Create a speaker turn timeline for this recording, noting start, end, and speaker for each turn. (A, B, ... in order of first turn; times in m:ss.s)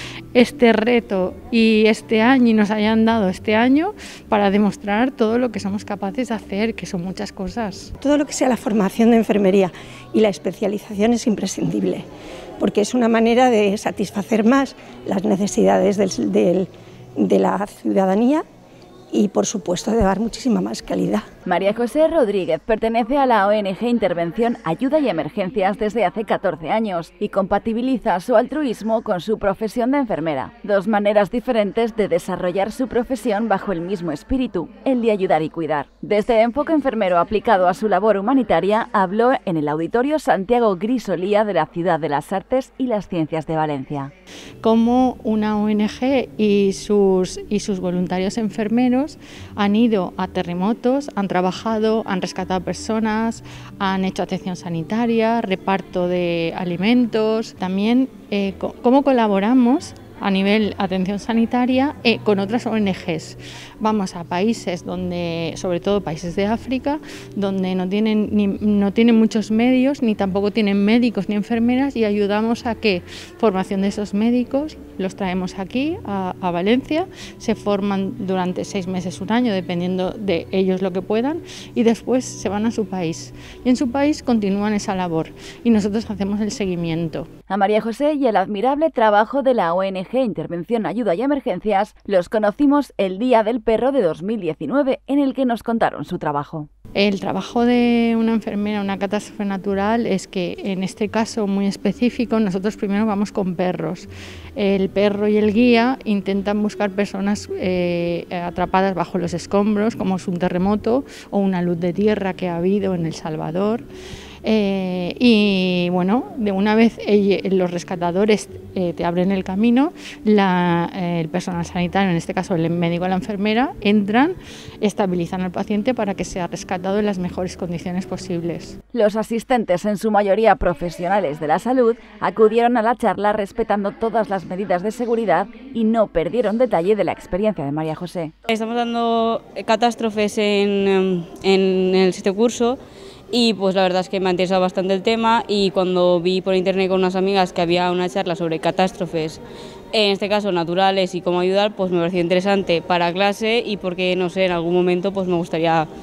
0:00.3-0:07.9 A
0:08.0-0:12.0 B
0:12.6-0:18.4 B
0:19.1-0:21.3 B
0:21.4-0:44.1 C
0:44.6-1:27.3 A
1:27.5-1:36.7 C
1:37.0-1:53.8 A
1:54.4-2:08.8 A
2:08.9-2:18.3 C
2:18.5-2:22.8 D
2:23.3-2:29.4 D
2:29.9-2:35.9 D